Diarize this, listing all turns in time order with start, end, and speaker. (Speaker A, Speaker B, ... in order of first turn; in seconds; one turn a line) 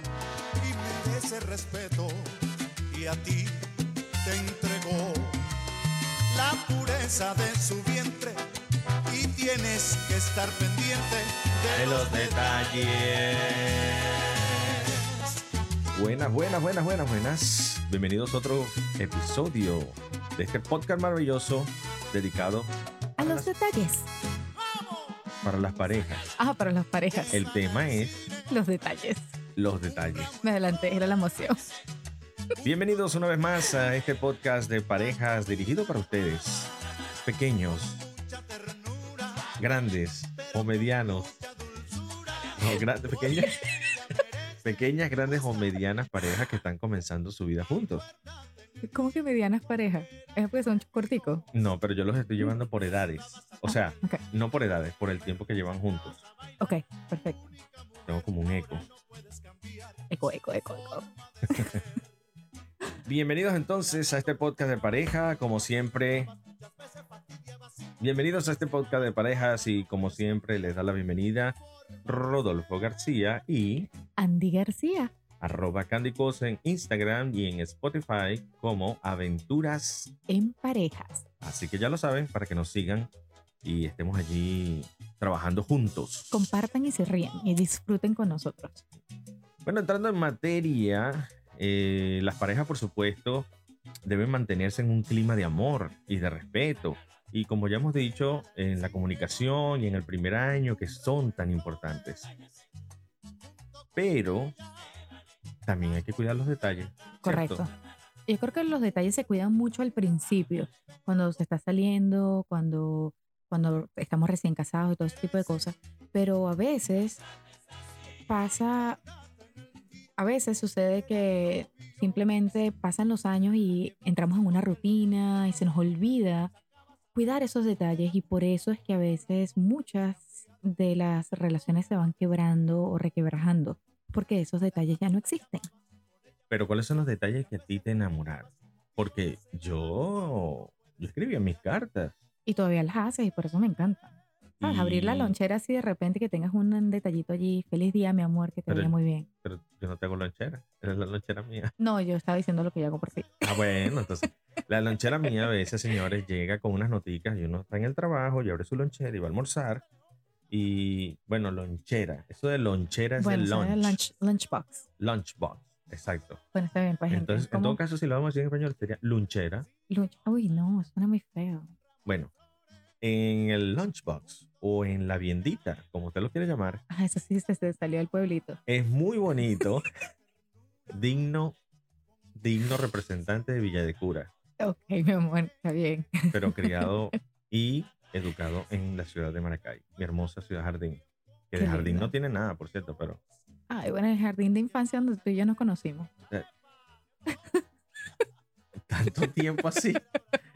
Speaker A: 0.6-5.5
Speaker A: 6.3-8.4
Speaker A: 9.0-12.2
Speaker B: 11.7-15.1
Speaker B: 15.9-23.5
Speaker C: 23.2-24.1
Speaker B: 25.4-26.2
Speaker C: 26.3-27.4
Speaker B: 27.3-28.3
Speaker C: 28.5-29.3
Speaker B: 29.6-30.4
Speaker C: 30.4-31.7
Speaker B: 32.6-36.7
Speaker B: 37.2-38.1
Speaker A: 38.2-39.5
Speaker B: 39.6-41.4
Speaker A: 41.8-42.5
Speaker B: 42.5-44.0
Speaker B: 44.6-48.1
Speaker C: 48.8-51.4
Speaker B: 51.5-56.2
Speaker C: 53.7-54.2
Speaker C: 56.6-57.5
Speaker B: 58.1-58.9
Speaker C: 60.1-61.8
Speaker B: 63.0-66.3
Speaker B: 68.0-73.9
Speaker C: 74.2-75.1
Speaker B: 75.4-80.1
Speaker C: 80.3-81.2
Speaker B: 81.4-83.1
Speaker B: 83.6-86.4
Speaker C: 86.3-88.8
Speaker B: 89.6-93.5
Speaker B: 94.0-102.3
Speaker B: 104.0-104.5
Speaker B: 105.7-107.6
Speaker C: 107.2-107.7
Speaker C: 108.3-117.2
Speaker C: 118.3-119.0
Speaker C: 120.2-126.5
Speaker C: 127.1-135.6
Speaker B: 136.5-142.1
Speaker C: 142.4-149.3
Speaker B: 144.6-145.4
Speaker B: 148.7-148.9
Speaker B: 149.4-151.7
Speaker C: 151.8-154.1
Speaker B: 153.4-159.8
Speaker C: 155.1-155.5
Speaker B: 160.5-164.0
Speaker C: 163.2-164.8
Speaker B: 165.0-166.4
Speaker C: 166.5-167.8
Speaker B: 167.1-169.7
Speaker C: 169.9-171.7
Speaker B: 172.1-172.3
Speaker B: 173.0-176.8
Speaker C: 176.9-178.6
Speaker B: 178.7-179.9
Speaker B: 180.9-181.6
Speaker B: 182.3-184.3
Speaker C: 184.6-187.1
Speaker B: 186.3-193.2
Speaker C: 191.6-192.1
Speaker C: 193.7-196.1
Speaker B: 198.9-200.0